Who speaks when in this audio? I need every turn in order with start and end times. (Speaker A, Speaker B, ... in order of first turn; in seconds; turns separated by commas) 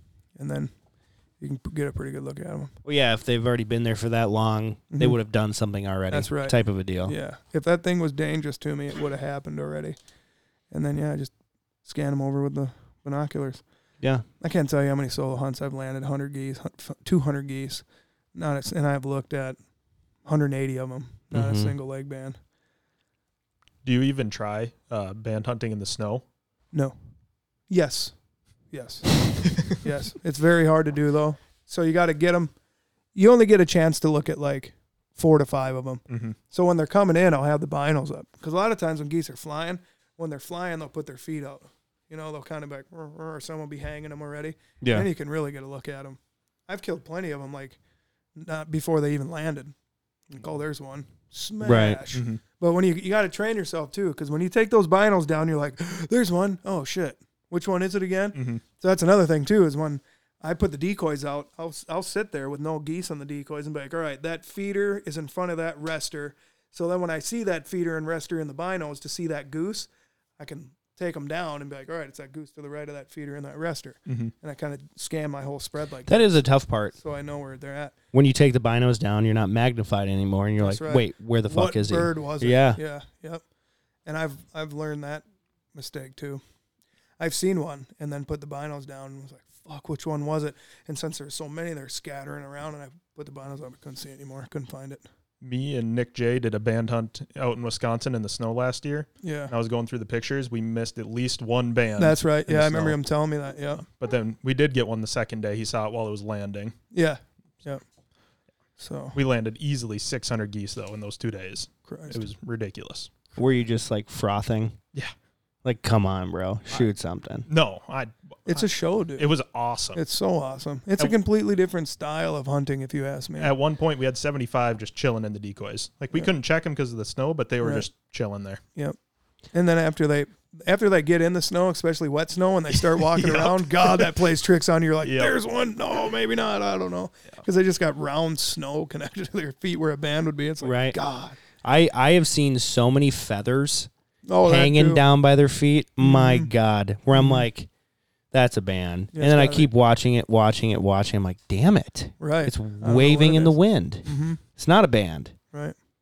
Speaker A: 0.4-0.7, Speaker A: 1.4-2.7, Speaker B: 2.8-7.2, Speaker A: 4.9-5.2, Speaker A: 6.1-10.0, Speaker A: 10.7-11.3, Speaker A: 11.8-13.6, Speaker A: 14.4-19.6, Speaker A: 20.2-22.4, Speaker B: 21.3-21.8, Speaker C: 23.8-26.2, Speaker A: 27.7-28.1, Speaker A: 28.7-32.5, Speaker A: 33.1-47.8, Speaker C: 36.1-36.4, Speaker B: 44.8-45.1, Speaker A: 48.4-49.8, Speaker A: 50.3-76.3, Speaker B: 51.6-52.0, Speaker C: 52.1-52.4, Speaker C: 58.4-58.6, Speaker C: 74.1-74.3, Speaker B: 76.1-76.9, Speaker A: 77.0-78.0, Speaker B: 78.1-82.8, Speaker A: 80.6-83.4, Speaker A: 84.1-86.4, Speaker A: 87.2-95.0, Speaker C: 95.4-103.0, Speaker A: 99.2-99.5, Speaker A: 102.0-103.9, Speaker C: 104.0-106.8, Speaker A: 106.9-107.8, Speaker A: 108.8-109.2, Speaker C: 109.2-113.1, Speaker A: 111.9-112.3, Speaker B: 113.4-114.8, Speaker B: 115.6-117.5, Speaker C: 117.5-120.0, Speaker A: 118.5-119.3, Speaker A: 120.0-123.5, Speaker C: 123.4-128.6, Speaker A: 129.5-141.4, Speaker C: 133.1-134.1, Speaker C: 135.0-135.4, Speaker B: 140.6-141.0, Speaker B: 141.6-143.9, Speaker A: 144.3-145.0, Speaker B: 144.4-147.7, Speaker A: 146.0-146.5, Speaker A: 147.1-147.5, Speaker B: 148.3-155.3, Speaker A: 149.1-149.7, Speaker A: 152.2-154.4